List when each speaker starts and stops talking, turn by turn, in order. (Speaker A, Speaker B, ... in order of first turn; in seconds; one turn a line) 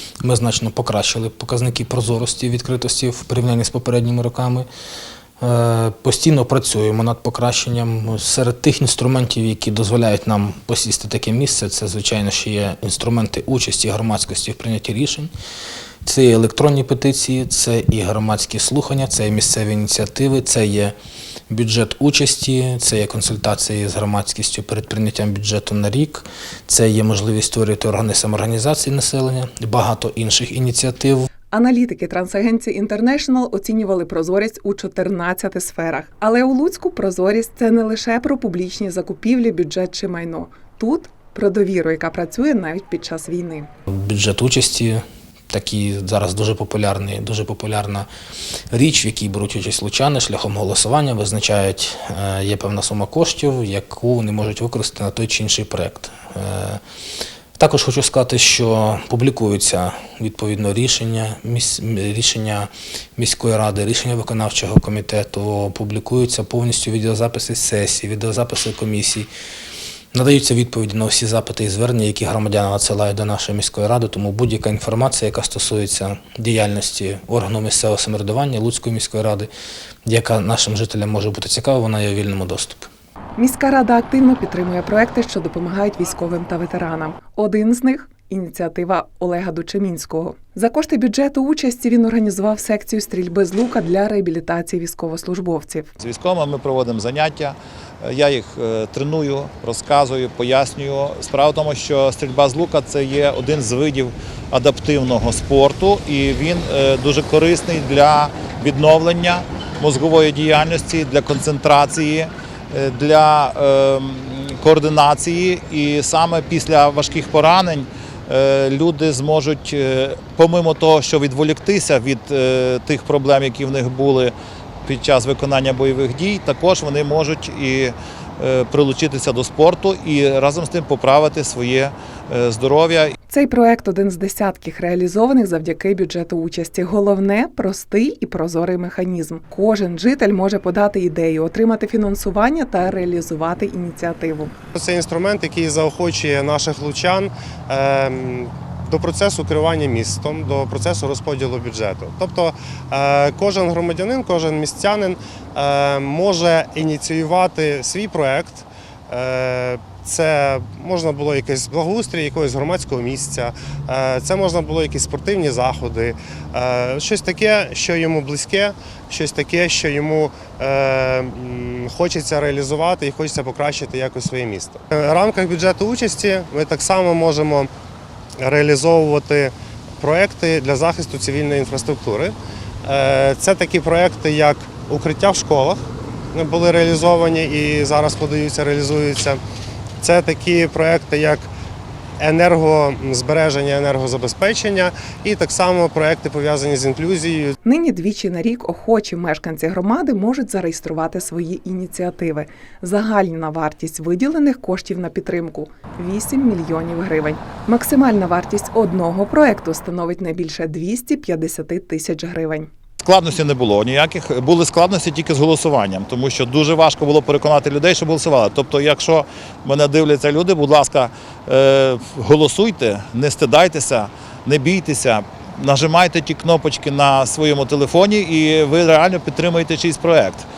Speaker A: 0.2-4.7
Speaker A: 5.4-15.3
Speaker A: 16.0-20.9
Speaker A: 21.5-31.3
Speaker B: 31.5-43.7
Speaker A: 43.9-48.1
Speaker A: 48.7-56.8
Speaker A: 57.5-69.3
Speaker A: 70.1-79.5
Speaker A: 80.0-82.9
Speaker B: 83.4-95.9
Speaker C: 96.0-124.3
Speaker C: 124.8-133.1
Speaker B: 133.3-144.5
Speaker D: 144.7-177.7
Speaker D: 178.4-189.4
Speaker D: 190.0-191.5
Speaker D: 192.2-197.5
Speaker B: 197.6-212.7
Speaker C: 213.0-230.5